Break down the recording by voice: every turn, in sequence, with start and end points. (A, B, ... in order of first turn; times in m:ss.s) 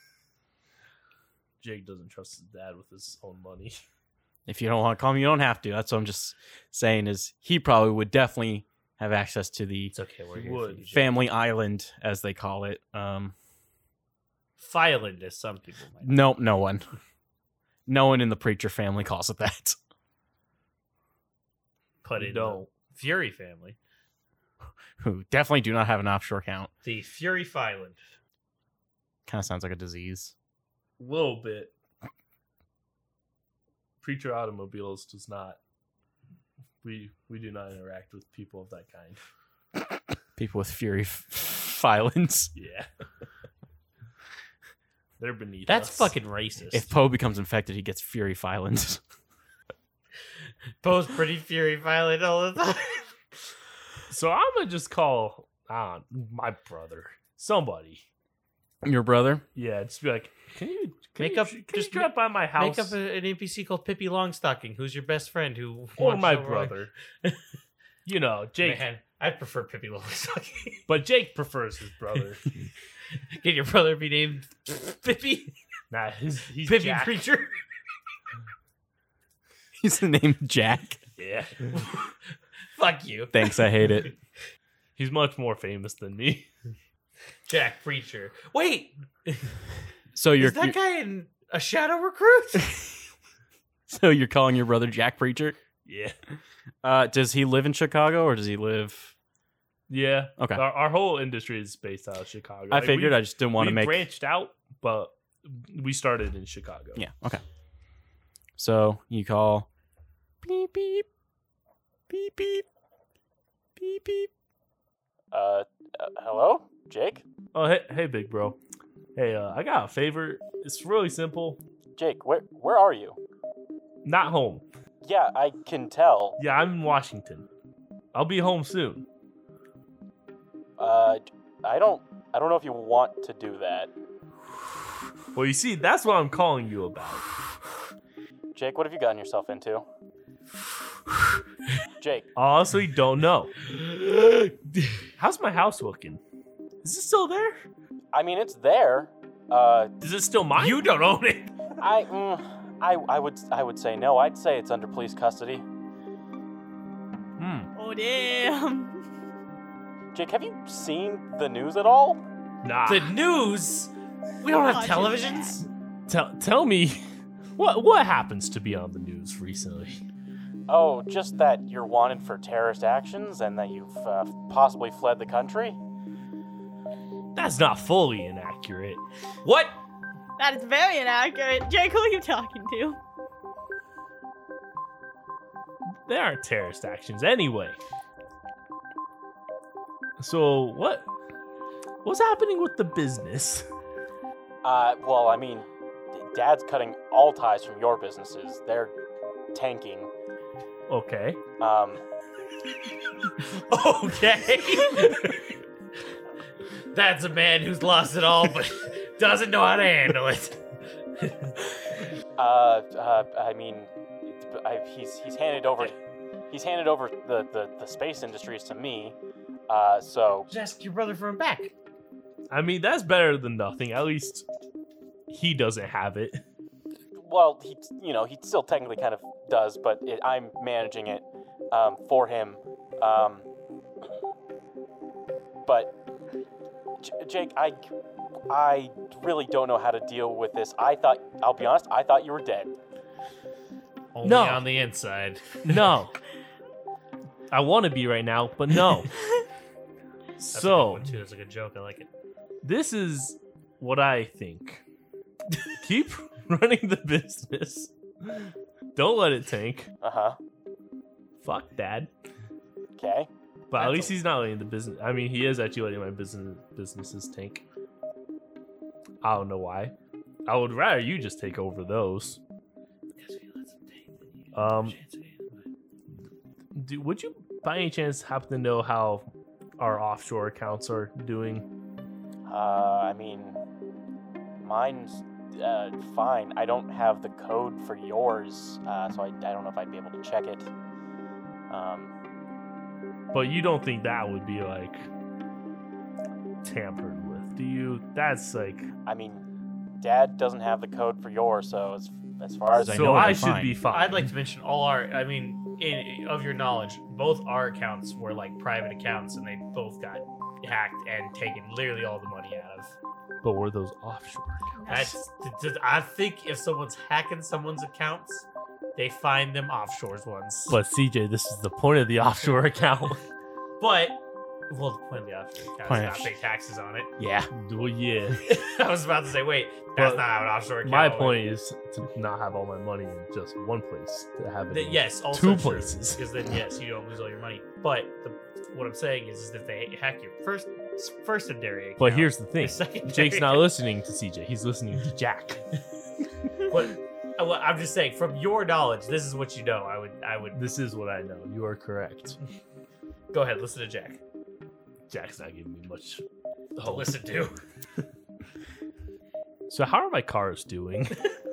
0:01.6-0:03.8 A
0:04.5-0:10.0 B
0:09.9-0:11.2 C
0:10.3-0:11.1 A
0:10.9-0:13.4 B
0:14.6-0:16.2 C
0:16.0-0:16.9 B
0:17.9-0:19.8 B
0:22.0-0:23.8 C
0:22.2-0:22.7 A
0:25.0-0:26.7 B
0:26.8-0:28.0 C
0:29.3-0:30.3 B
0:31.0-0:31.7 A
0:34.0-0:35.6 A
0:36.8-0:39.2 A
0:40.4-0:42.5 B
0:42.5-0:42.9 A
0:45.2-0:46.1 A
0:45.7-0:46.9 C
0:46.7-0:49.0 B
0:50.8-0:53.2 C
0:54.1-0:58.1 A
0:58.8-0:59.4 B
0:59.6-1:03.0 A
1:01.2-1:07.4 C
1:06.0-1:06.9 A
1:08.0-1:08.8 A
1:08.6-1:10.8 C
1:10.9-1:12.4 A
1:13.2-1:15.5 C
1:15.9-1:17.2 A
1:16.6-1:17.6 C
1:19.8-1:21.0 B
1:21.2-1:21.8 A
1:21.7-1:22.1 C
1:22.8-1:24.1 C
1:23.3-1:24.1 B
1:25.0-1:26.5 A
1:27.5-1:29.6 C
1:30.2-1:30.8 B
1:30.4-1:32.7 C
1:33.9-1:35.6 B
1:35.8-1:36.2 A
1:36.8-1:39.1 B
1:39.9-1:47.0 A
1:40.4-1:40.6 B
1:42.7-1:44.0 B
1:47.0-1:47.4 B
1:48.6-1:49.7 B
1:50.4-1:51.1 B
1:52.1-1:52.6 B
1:53.8-1:54.3 B
1:55.3-1:57.2 D
1:57.5-1:58.6 A
1:59.2-2:01.6 A
2:02.0-2:03.2 D
2:04.0-2:04.7 A
2:05.0-2:06.4 D
2:06.4-2:07.5 A
2:08.1-2:09.1 A
2:10.8-2:13.9 D
2:15.4-2:17.3 A
2:18.6-2:19.8 D
2:22.0-2:22.3 D
2:22.4-2:23.5 A
2:23.7-2:24.8 C
2:25.2-2:26.2 A
2:26.8-2:27.7 A
2:28.1-2:29.9 D
2:30.0-2:30.9 A
2:30.6-2:31.8 C
2:31.8-2:35.6 D
2:37.8-2:39.0 E
2:40.1-2:42.2 D
2:42.6-2:43.1 A
2:42.9-2:45.6 C
2:44.6-2:45.6 E
2:46.1-2:47.0 A
2:47.6-2:50.0 A
2:50.7-2:55.8 D
2:57.4-2:59.0 A
2:59.4-2:59.8 C
3:00.4-3:03.0 E
3:05.9-3:07.8 A
3:10.2-3:11.1 A
3:12.0-3:13.7 A
3:14.6-3:18.9 D
3:19.5-3:20.1 D
3:20.9-3:21.4 A
3:21.6-3:22.0 D
3:23.4-3:25.5 C
3:26.9-3:30.6 C
3:31.2-3:31.6 C
3:32.4-3:33.9 D
3:34.5-3:35.9 D
3:36.5-3:39.1 D
3:39.7-3:40.5 D
3:40.5-3:41.7 C
3:42.5-3:44.5 A
3:45.3-3:46.4 A
3:47.2-3:51.2 D
3:51.7-3:53.4 D
3:57.0-3:57.8 D
3:58.5-4:02.7 D
4:04.1-4:05.6 C
4:04.2-4:04.6 A
4:05.6-4:06.1 A
4:07.5-4:09.1 A
4:10.4-4:11.1 A
4:10.5-4:12.1 C
4:12.6-4:14.8 A
4:15.8-4:19.9 A
4:20.0-4:20.3 D
4:21.4-4:22.1 A
4:23.0-4:23.3 D
4:23.7-4:27.6 A
4:23.8-4:24.1 C
4:29.2-4:29.9 A
4:30.5-4:32.4 A
4:33.2-4:35.6 C
4:34.5-4:35.0 A
4:36.7-4:41.7 A
4:42.5-4:43.5 D
4:44.6-4:45.1 D
4:45.6-4:50.6 D
4:51.7-4:52.1 D
4:53.3-4:55.1 A
4:56.6-4:58.9 A
4:59.1-4:59.4 D
5:00.0-5:02.9 D
5:02.6-5:03.7 B
5:02.8-5:04.3 A
5:03.9-5:13.0 C
5:13.4-5:14.7 A
5:14.8-5:15.1 E
5:14.9-5:20.8 C
5:20.7-5:23.2 A
5:23.8-5:27.1 C
5:25.8-5:26.3 B
5:27.2-5:27.5 B
5:27.5-5:28.5 A
5:28.4-5:31.4 C
5:30.0-5:30.2 A
5:30.8-5:36.3 A
5:34.7-5:43.7 C
5:42.0-5:45.6 A
5:46.7-5:50.6 C
5:50.5-5:52.4 A
5:53.3-5:54.2 C
5:55.1-5:56.2 A
5:56.8-5:57.4 A
5:56.8-5:57.6 C
5:59.7-6:01.2 A